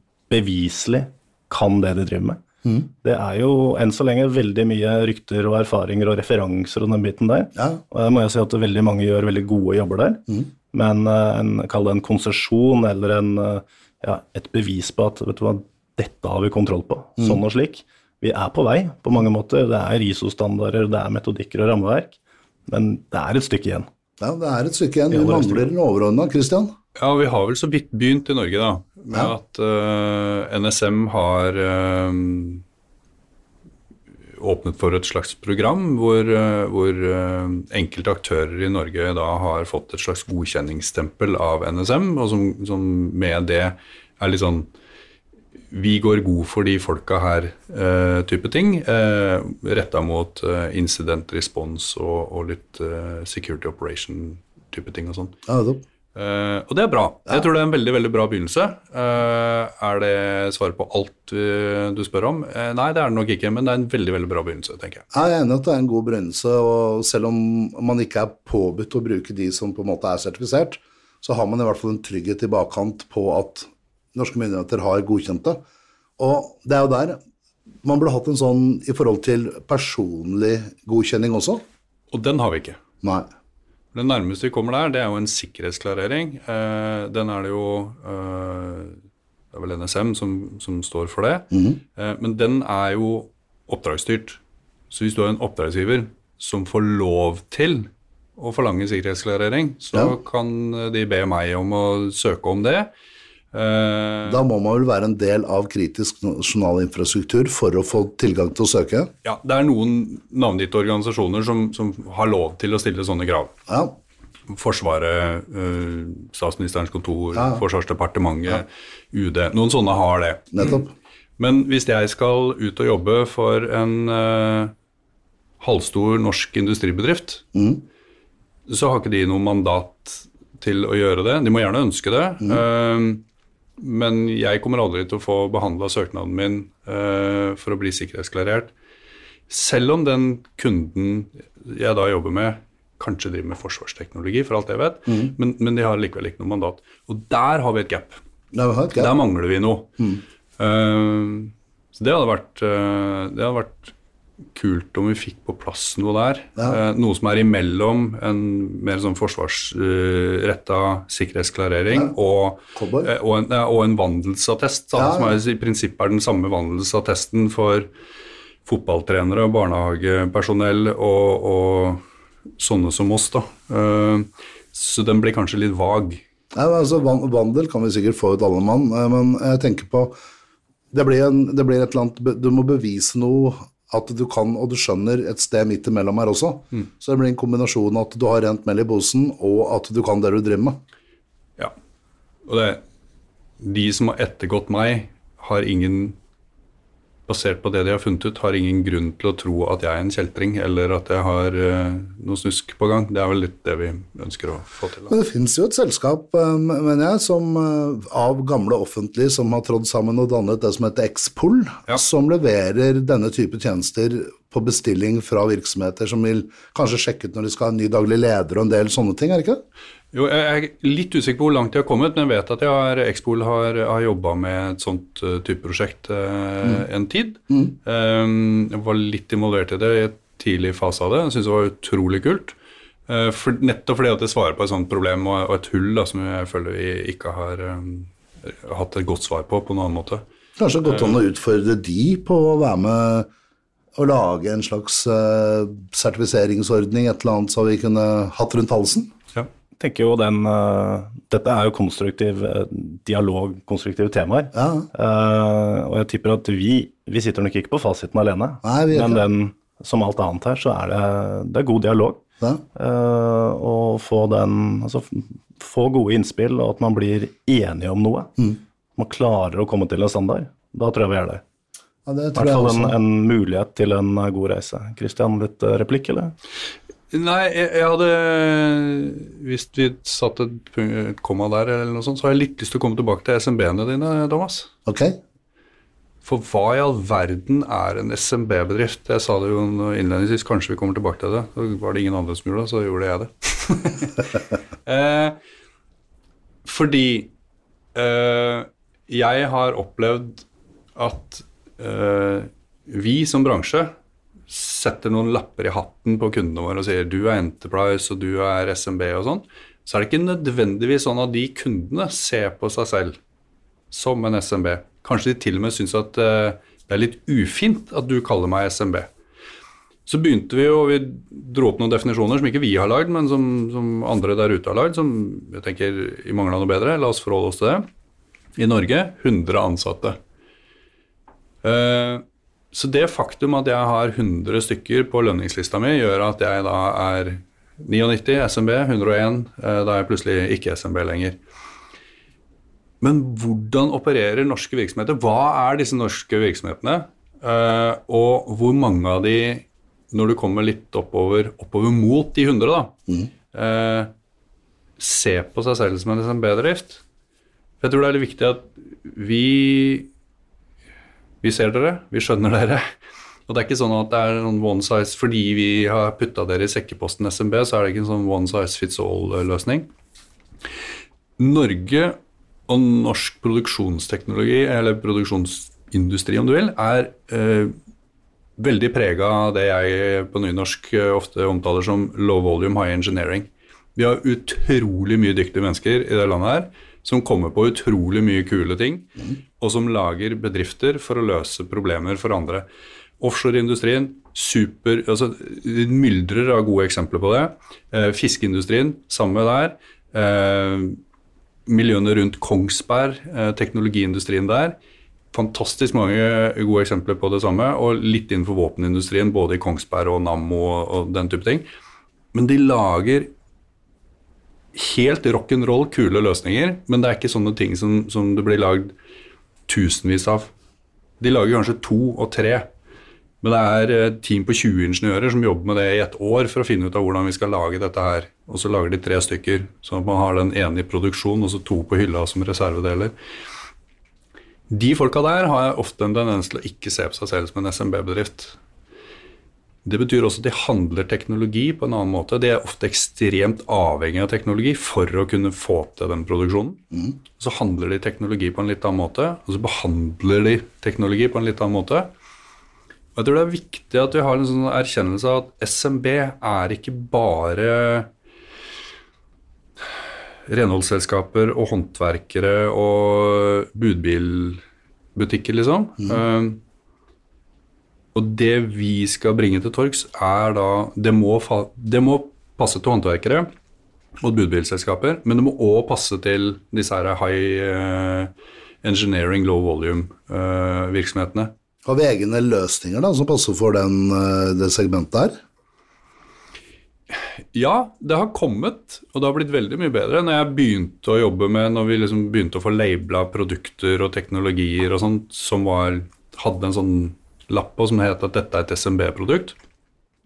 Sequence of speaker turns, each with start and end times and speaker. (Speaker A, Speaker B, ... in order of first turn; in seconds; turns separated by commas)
Speaker A: 0.3-23.9, Speaker B: 7.6-7.8, Speaker B: 24.2-26.7, Speaker A: 25.1-25.7, Speaker C: 27.0-32.6, Speaker C: 34.4-44.7, Speaker C: 45.7-55.4, Speaker B: 55.5-55.8, Speaker C: 56.1-65.0, Speaker B: 65.1-75.6, Speaker B: 76.2-77.2, Speaker B: 77.8-81.6, Speaker C: 82.1-82.8, Speaker B: 83.0-83.3, Speaker C: 83.9-89.0, Speaker C: 89.5-94.4, Speaker B: 91.5-91.8, Speaker C: 94.9-102.9, Speaker C: 103.5-104.4, Speaker B: 104.3-109.1, Speaker C: 109.2-113.5, Speaker B: 113.7-114.0, Speaker C: 114.5-120.8, Speaker B: 117.3-117.6, Speaker B: 120.5-120.9, Speaker C: 121.4-124.7, Speaker C: 125.6-127.5, Speaker B: 127.5-127.8, Speaker C: 128.7-133.2, Speaker C: 133.8-138.7, Speaker C: 139.5-148.2, Speaker B: 148.5-149.1, Speaker C: 148.9-150.1, Speaker C: 150.6-153.9, Speaker C: 154.6-167.9, Speaker B: 162.8-163.1, Speaker B: 165.0-165.4, Speaker C: 168.7-172.0, Speaker C: 172.6-176.2, Speaker B: 176.5-180.1, Speaker B: 180.9-190.8, Speaker C: 192.4-192.8, Speaker C: 193.6-196.2, Speaker C: 197.3-205.1, Speaker B: 205.1-219.6, Speaker C: 220.1-232.6, Speaker C: 233.1-240.2, Speaker B: 240.6-243.3, Speaker C: 240.8-241.2, Speaker B: 244.0-249.1, Speaker A: 249.8-262.2, Speaker B: 254.6-254.9, Speaker B: 258.6-259.2, Speaker A: 262.8-268.4, Speaker A: 269.0-271.4, Speaker B: 272.1-273.0, Speaker A: 272.4-276.3, Speaker C: 277.1-284.7, Speaker B: 284.9-285.2, Speaker C: 286.2-294.3, Speaker C: 294.9-295.4, Speaker C: 296.6-297.3, Speaker C: 297.9-303.9, Speaker C: 304.5-313.2, Speaker C: 313.9-319.1, Speaker C: 320.1-327.9, Speaker C: 328.6-330.2, Speaker C: 331.6-341.4, Speaker C: 343.0-353.0, Speaker C: 353.5-354.1, Speaker C: 355.0-357.0, Speaker C: 357.8-360.1, Speaker C: 361.4-362.9, Speaker C: 363.5-369.9, Speaker C: 371.4-377.7, Speaker C: 378.6-392.7, Speaker C: 393.2-401.0, Speaker C: 401.7-404.8, Speaker C: 405.3-411.7, Speaker C: 412.3-413.3, Speaker C: 414.7-418.9, Speaker C: 419.7-420.5, Speaker C: 421.2-422.7, Speaker C: 423.4-433.1, Speaker C: 434.7-438.6, Speaker C: 439.9-446.8, Speaker C: 447.4-452.1, Speaker C: 453.1-458.1, Speaker C: 460.5-464.6, Speaker C: 465.1-466.6, Speaker C: 468.1-473.5, Speaker C: 474.2-478.3, Speaker C: 478.8-481.5, Speaker B: 481.9-485.3, Speaker C: 487.1-499.6